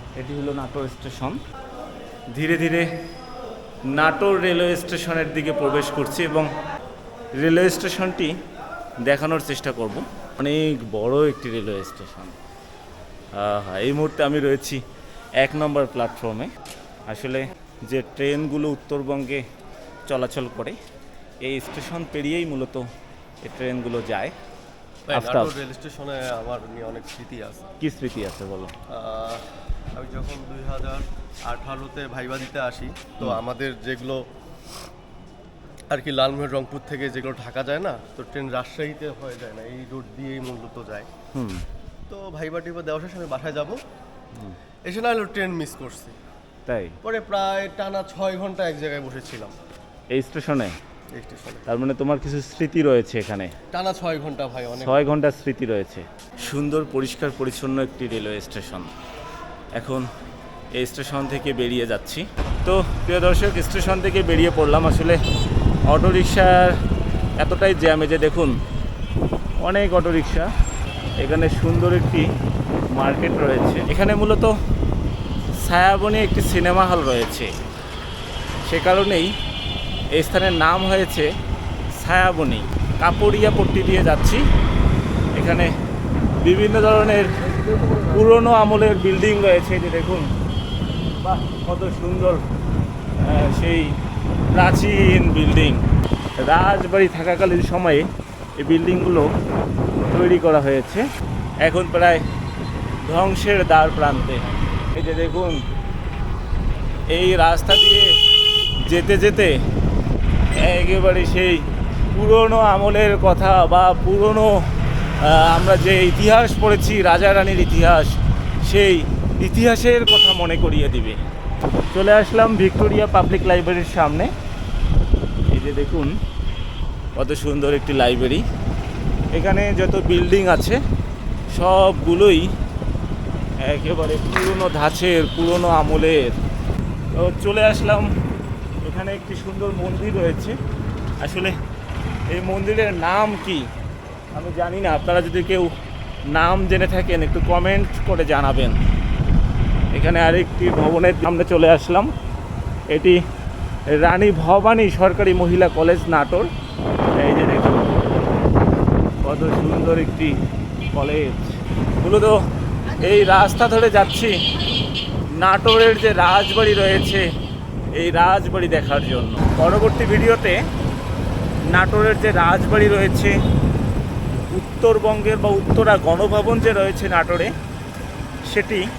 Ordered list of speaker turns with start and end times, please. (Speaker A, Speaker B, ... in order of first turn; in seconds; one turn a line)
Speaker A: 0.2-1.4
Speaker A: 2.3-2.9
Speaker A: 3.9-6.5
Speaker A: 7.3-8.3
Speaker A: 9.0-12.3
Speaker A: 13.3-14.8
Speaker A: 15.4-16.5
Speaker A: 17.1-19.4
Speaker A: 20.1-20.8
Speaker A: 21.4-22.9
Speaker A: 23.4-24.3
Speaker B: 25.1-27.6
Speaker A: 25.1-25.5
Speaker A: 27.8-28.7
Speaker B: 28.9-34.2
Speaker B: 35.9-41.1
Speaker A: 41.3-41.6
Speaker B: 42.1-43.8
Speaker B: 44.9-46.1
Speaker A: 46.7-47.0
Speaker B: 47.0-49.5
Speaker A: 50.1-50.7
Speaker B: 51.1-51.6
Speaker A: 51.7-53.5
Speaker B: 53.7-55.0
Speaker A: 54.8-58.9
Speaker A: 59.8-60.0
Speaker A: 60.7-65.2
Speaker A: 65.9-66.8
Speaker A: 67.4-68.6
Speaker A: 69.6-70.5
Speaker A: 71.2-72.3
Speaker A: 72.9-74.5
Speaker A: 75.6-77.5
Speaker A: 78.7-79.3
Speaker A: 80.1-81.3
Speaker A: 82.0-84.4
Speaker A: 85.3-85.7
Speaker A: 86.4-90.3
Speaker A: 91.2-92.4
Speaker A: 93.2-93.9
Speaker A: 94.5-95.8
Speaker A: 96.4-98.1
Speaker A: 98.6-99.3
Speaker A: 100.1-101.0
Speaker A: 101.6-102.2
Speaker A: 103.0-105.6
Speaker A: 107.1-108.1
Speaker A: 108.8-109.5
Speaker A: 110.6-114.5
Speaker A: 115.2-121.2
Speaker A: 121.9-124.3
Speaker A: 125.5-126.1
Speaker A: 127.2-128.4
Speaker A: 129.3-130.8
Speaker A: 131.5-132.5
Speaker A: 133.6-136.4
Speaker A: 137.1-138.1
Speaker A: 138.8-140.6
Speaker A: 141.2-141.5
Speaker A: 142.3-143.7
Speaker A: 144.3-145.7
Speaker A: 146.3-148.8
Speaker A: 149.9-152.1
Speaker A: 152.9-153.2
Speaker A: 153.9-156.5
Speaker A: 157.2-158.0
Speaker A: 159.2-160.4
Speaker A: 160.9-162.4
Speaker A: 163.0-164.4
Speaker A: 165.4-167.3
Speaker A: 167.9-170.6
Speaker A: 171.7-173.4
Speaker A: 174.5-177.5
Speaker A: 178.5-178.8